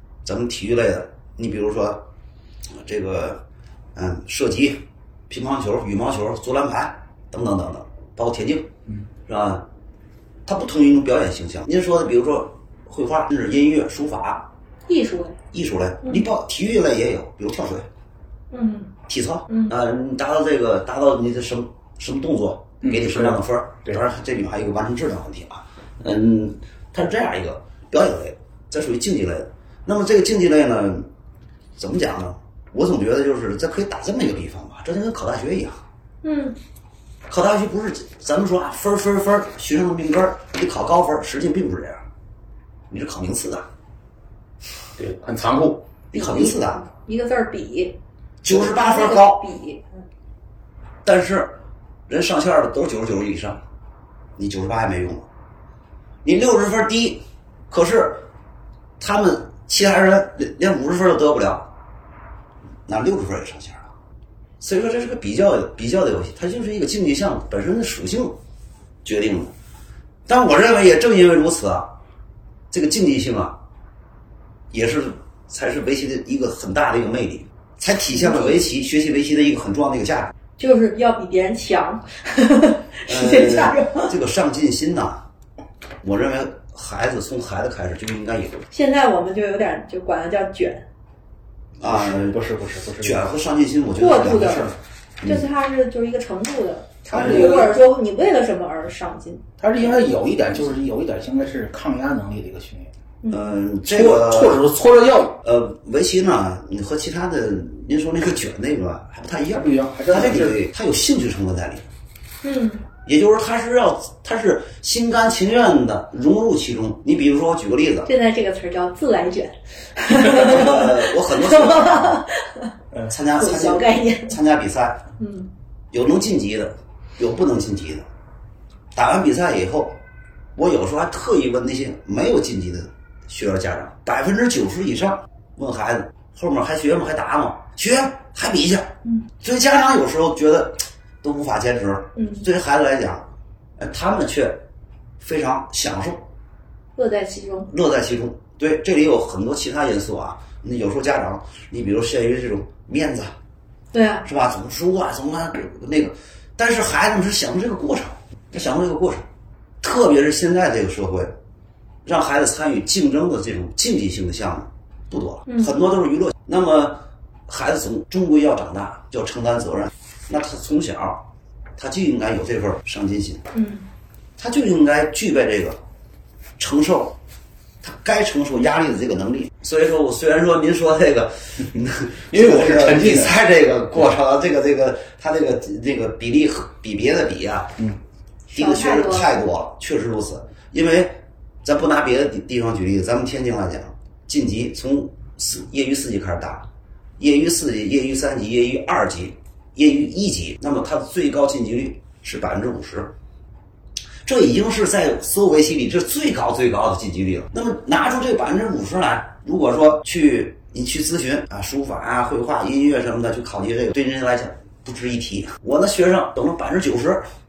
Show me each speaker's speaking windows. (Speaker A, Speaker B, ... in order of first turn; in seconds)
Speaker A: 0.2-2.0, 2.8-3.4, 3.9-8.7, 9.3-9.6, 10.4-14.5, 15.5-17.8, 19.1-31.1, 31.8-35.8, 37.3-42.0, 42.9-43.7, 46.1-46.8, 48.4-49.5, 51.0-53.6, 54.4-55.2, 56.2-58.2, 59.0-61.7, 62.9-63.9, 64.6-68.3, 69.0-69.5, 70.3-71.9, 72.7-73.6, 74.7-80.3, 83.0-85.2, 86.0-88.7, 91.8-92.5, 93.0-95.5, 97.1-97.7, 103.3-104.7, 105.4-111.8, 113.0-118.1, 120.2-122.2, 123.0-125.0, 125.9-128.1, 128.9-130.0, 130.6-143.2, 143.8-144.6, 145.2-146.2, 147.7-153.3, 154.2-159.2, 159.8-161.3, 162.0-171.2, 171.8-173.4, 174.4-175.8, 176.6-177.2, 177.8-187.8, 188.5-196.7, 197.2-203.1, 204.2-217.2
Speaker B: 14.9-15.4, 18.5-18.9, 19.5-19.7, 36.2-36.6, 46.1-48.0, 48.5-49.9, 78.1-78.7, 80.6-84.1, 88.7-90.8, 94.0-100.0, 103.2-103.5, 112.4-112.8, 118.0-122.7, 123.3-124.4, 125.2-125.5, 142.2-142.4, 146.9-147.7, 153.9-154.3, 165.5-165.7, 173.5-173.9, 188.5-189.3
Speaker C: 22.8-24.0, 45.0-45.9, 91.8-93.2, 97.1-97.8, 99.6-102.9, 103.8-105.4, 109.5-110.6, 182.3-183.4